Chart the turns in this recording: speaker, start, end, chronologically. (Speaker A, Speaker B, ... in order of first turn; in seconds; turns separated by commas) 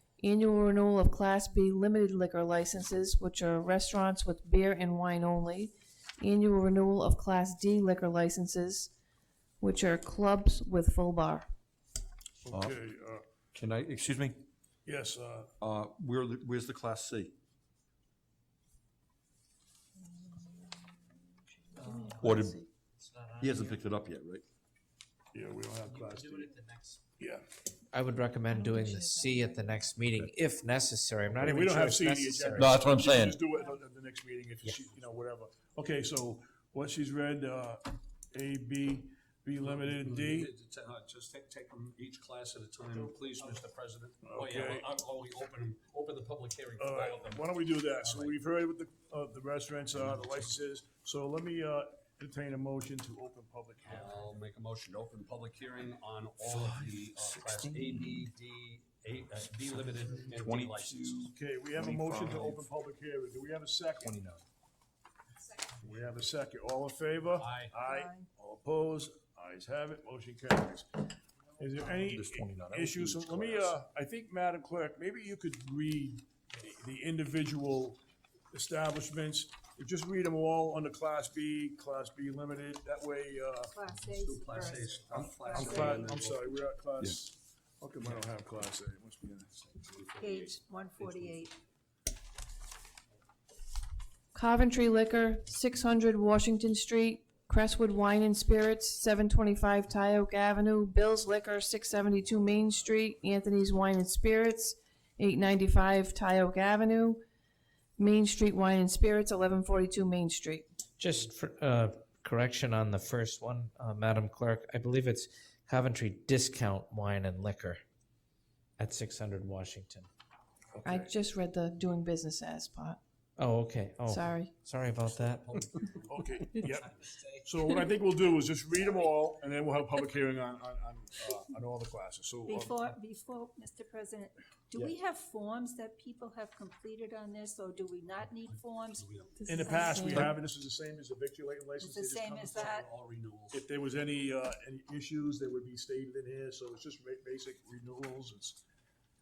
Speaker A: 0.2-8.9, Speaker A: 9.6-11.5, Speaker B: 12.4-13.3, Speaker C: 12.5-12.8, Speaker C: 13.5-14.4, Speaker B: 14.8-15.5, Speaker C: 15.6-17.3, Speaker A: 20.1-21.2, Speaker A: 21.7-22.6, Speaker D: 21.8-23.8, Speaker C: 22.2-22.6, Speaker C: 23.4-24.4, Speaker B: 25.3-26.5, Speaker D: 25.9-27.0, Speaker B: 27.2-27.4, Speaker D: 27.9-32.7, Speaker A: 28.5-29.9, Speaker B: 31.3-40.5, Speaker C: 32.6-33.4, Speaker E: 39.6-48.4, Speaker B: 44.2-44.9, Speaker B: 46.8-54.3, Speaker E: 50.0-50.4, Speaker E: 53.9-61.2, Speaker C: 60.4-62.6, Speaker B: 61.3-64.2, Speaker C: 64.0-64.4, Speaker B: 65.7-78.0, Speaker E: 67.4-67.8, Speaker F: 67.8-68.3, Speaker C: 72.1-73.7, Speaker B: 78.5-83.7, Speaker F: 83.7-85.8, Speaker E: 83.9-86.6, Speaker B: 85.1-89.8, Speaker E: 89.8-91.5, Speaker F: 90.2-91.5, Speaker A: 94.3-107.2, Speaker A: 108.0-110.7, Speaker D: 111.0-117.8, Speaker D: 118.8-120.1, Speaker B: 120.7-121.1, Speaker A: 120.8-123.0, Speaker D: 123.4-125.6, Speaker A: 124.1-124.5, Speaker E: 125.1-126.2, Speaker B: 126.1-132.9, Speaker F: 132.5-140.3, Speaker E: 138.4-139.5, Speaker A: 139.5-140.2, Speaker B: 139.5-142.8, Speaker F: 141.8-142.9, Speaker E: 142.4-143.6, Speaker B: 143.5-148.6